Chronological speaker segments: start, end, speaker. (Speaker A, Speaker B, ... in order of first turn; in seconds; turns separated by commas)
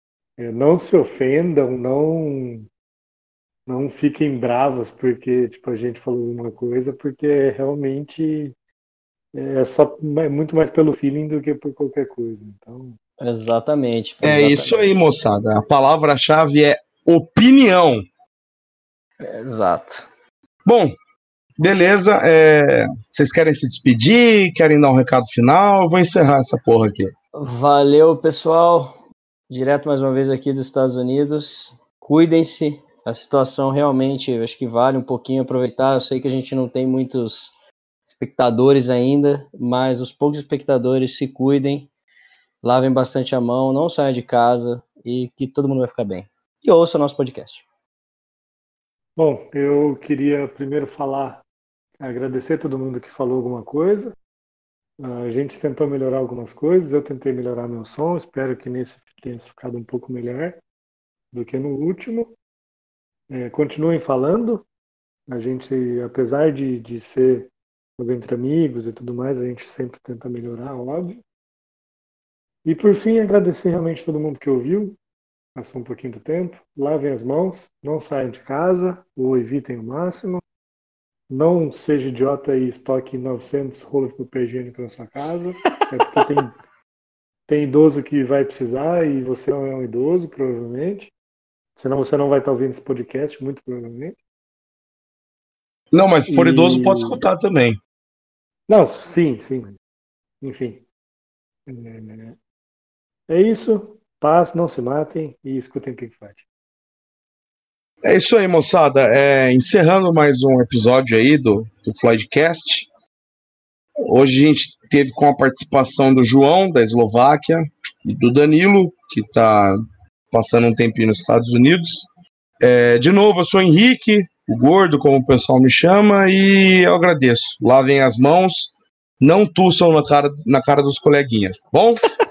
Speaker A: 0.4-2.7, Speaker A: 3.7-8.5, Speaker A: 9.3-13.0, Speaker B: 13.2-14.9, Speaker C: 14.2-18.1, Speaker B: 19.2-20.1, Speaker C: 20.6-20.9, Speaker C: 21.6-27.1, Speaker B: 27.4-29.0, Speaker B: 29.5-41.9, Speaker B: 42.6-47.6, Speaker A: 49.2-51.4, Speaker A: 52.0-54.1, Speaker A: 55.0-60.6, Speaker A: 61.3-62.3, Speaker A: 63.3-64.7, Speaker A: 65.3-71.2, Speaker A: 72.6-75.0, Speaker A: 75.5-80.4, Speaker A: 81.3-86.5, Speaker B: 85.7-86.2, Speaker A: 87.5-91.1, Speaker A: 91.8-94.2, Speaker C: 95.9-97.8, Speaker A: 96.3-97.2, Speaker A: 98.7-99.8, Speaker A: 100.4-100.8, Speaker A: 101.7-102.4, Speaker A: 103.3-106.4, Speaker C: 108.0-112.9, Speaker C: 114.0-119.8, Speaker C: 120.3-122.1, Speaker C: 122.6-132.0